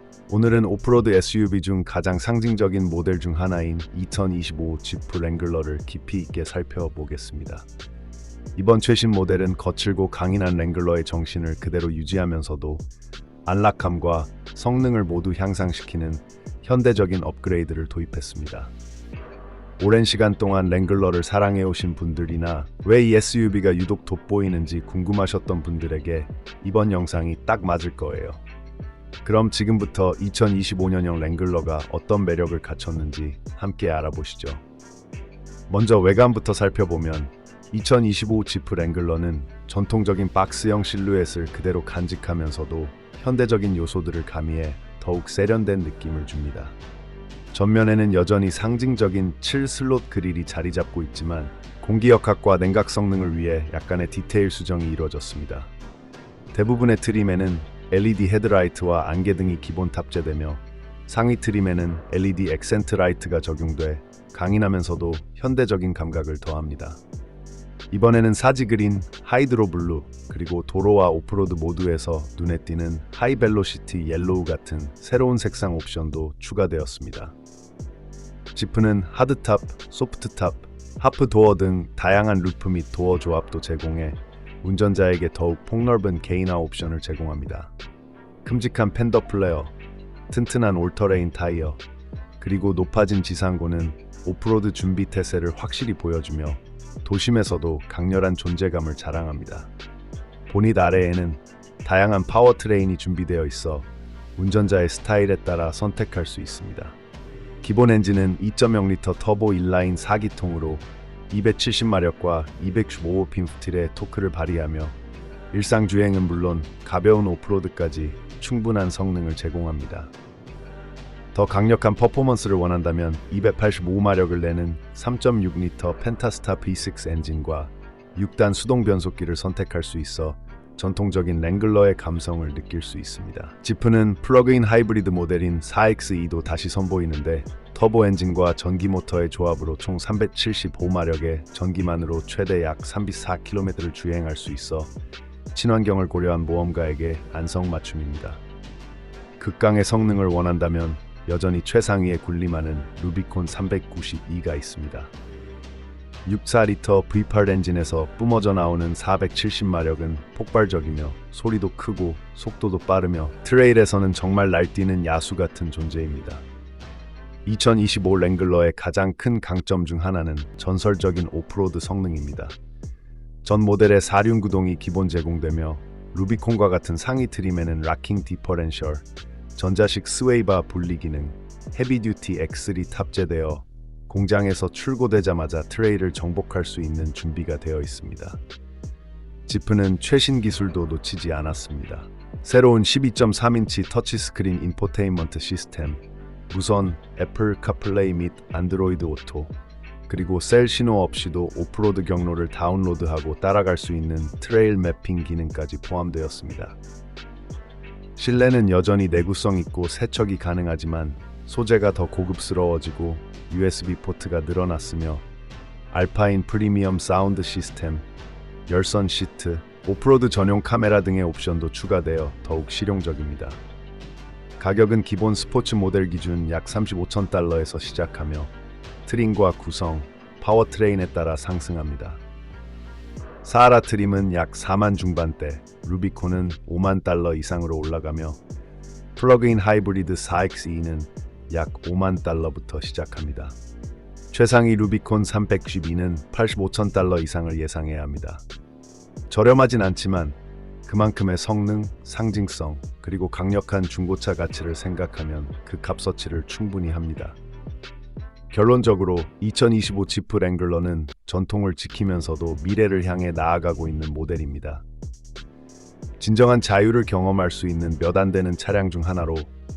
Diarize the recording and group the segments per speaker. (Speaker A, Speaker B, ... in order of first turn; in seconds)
Speaker A: 0.3-7.7, 8.6-12.8, 13.5-18.7, 19.8-28.4, 29.2-34.6, 35.7-46.8, 47.5-55.7, 56.5-67.0, 67.9-77.3, 78.5-87.7, 88.4-89.7, 90.3-91.8, 92.4-99.7, 100.5-107.0, 107.6-115.0, 115.5-120.1, 121.3-144.9, 145.5-148.4, 149.4-155.1, 156.2-166.4, 167.4-172.6, 173.4-179.1, 179.6-188.4, 189.5-199.5, 200.1-206.8, 208.2-215.2, 215.9-218.1, 218.7-223.6, 224.6-228.5, 229.1-232.2, 233.4-238.4, 239.2-243.6, 244.3-248.4, 249.3-257.4, 258.5-264.8, 266.2-269.5